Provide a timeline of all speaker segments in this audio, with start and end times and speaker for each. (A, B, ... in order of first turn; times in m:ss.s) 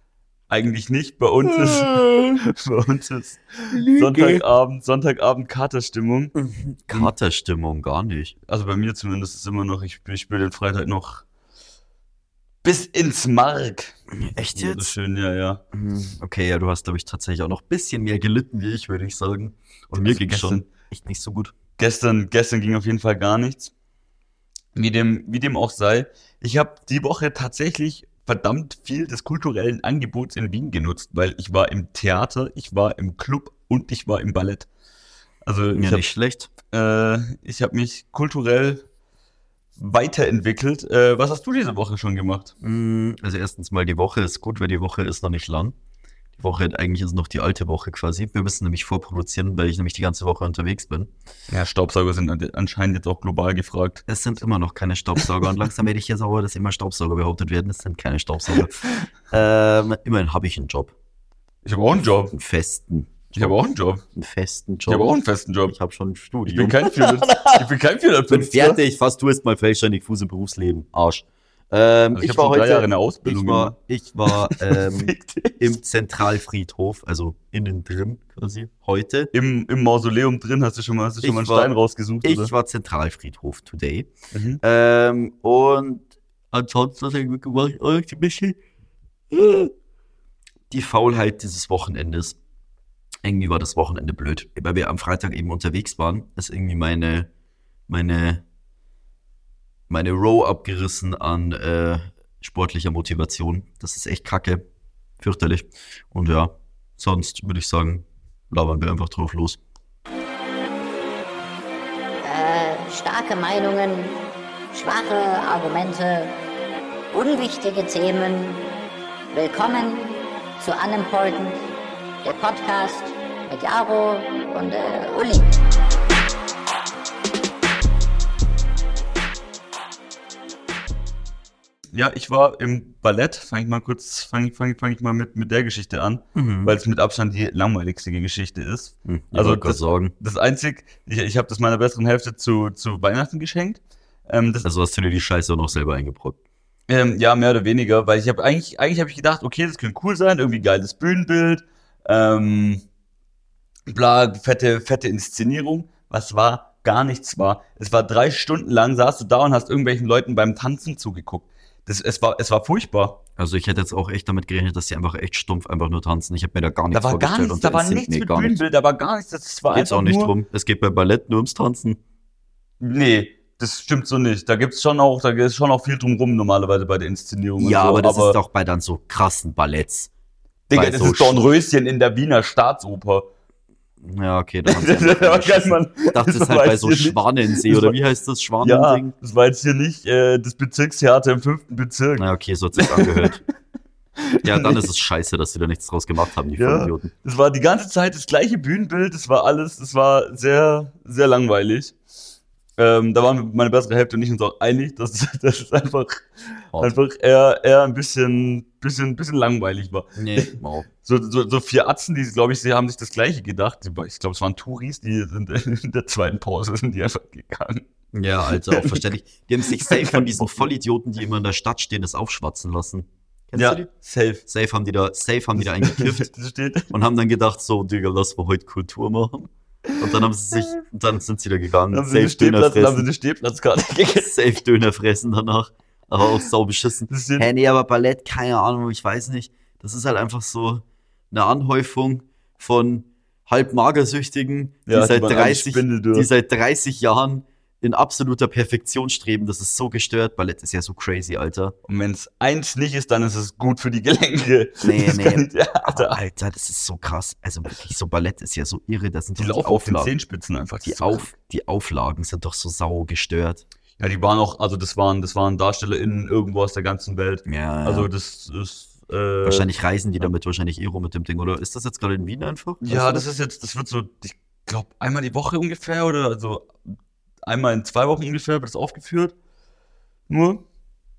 0:00.5-0:06.3 A
0:01.5-0:02.4 B
0:03.7-0:04.4 B
0:06.3-0:08.3 B
0:08.5-0:11.2 A
0:12.6-0:14.0 A
0:14.2-0:14.9 B
0:14.5-0:15.6 A
0:15.7-0:21.5 B
0:20.0-0:20.7 A
0:21.8-0:23.7 A
0:24.7-0:34.7 A
0:35.4-0:36.0 A
0:35.7-0:36.5 B
0:36.7-0:38.8 A
0:39.8-0:42.5 A
0:42.6-0:45.7 B
0:46.4-0:51.1 B
0:51.5-0:54.0 A
0:54.1-1:00.9 B
1:01.6-1:02.3 A
1:02.3-1:03.6 B
1:03.4-1:04.0 A
1:04.1-1:05.1 B
1:04.9-1:05.7 A
1:05.7-1:07.7 B
1:06.4-1:08.8 A
1:08.3-1:19.3 B
1:12.1-1:13.7 A
1:14.3-1:15.6 A
1:19.3-1:22.5 A
1:21.2-1:21.7 B
1:22.2-1:28.6 B
1:24.3-1:24.6 A
1:29.3-1:29.7 B
1:30.7-1:32.4 B
1:33.2-1:37.3 B
1:37.9-1:38.4 B
1:39.9-1:44.6 B
1:45.2-1:49.6 B
1:52.2-1:54.2 C
1:54.7-1:56.4 C
1:57.1-1:58.7 C
1:59.3-2:01.7 C
2:02.2-2:05.6 C
2:11.9-2:24.6 A
2:16.3-2:16.8 B
2:19.0-2:20.1 B
2:24.6-2:26.4 B
2:26.9-2:32.8 A
2:33.9-2:43.2 A
2:43.4-2:48.6 B
2:46.9-2:50.3 A
2:49.7-2:52.0 B
2:52.8-2:58.4 A
2:57.6-3:00.1 B
3:00.7-3:03.3 A
3:00.7-3:01.4 B
3:04.0-3:09.1 B
3:04.7-3:08.0 A
3:08.6-3:13.4 A
3:12.2-3:13.4 B
3:14.2-3:14.8 A
3:14.4-3:17.1 B
3:16.6-3:22.0 A
3:22.8-3:37.8 A
3:30.2-3:30.9 B
3:38.1-3:43.9 B
3:38.5-3:39.1 A
3:39.6-3:40.7 A
3:43.5-3:44.4 A
3:44.4-3:46.3 B
3:45.6-3:46.9 A
3:46.9-3:53.1 B
3:51.9-3:54.3 A
3:54.2-4:11.7 B
3:57.1-3:57.5 A
4:04.9-4:06.3 A
4:11.9-4:16.2 A
4:14.8-4:20.1 B
4:19.4-4:21.3 A
4:20.8-4:23.6 B
4:24.0-4:29.7 A
4:27.4-4:28.1 B
4:29.4-4:33.2 B
4:32.8-4:39.3 A
4:40.3-4:40.6 A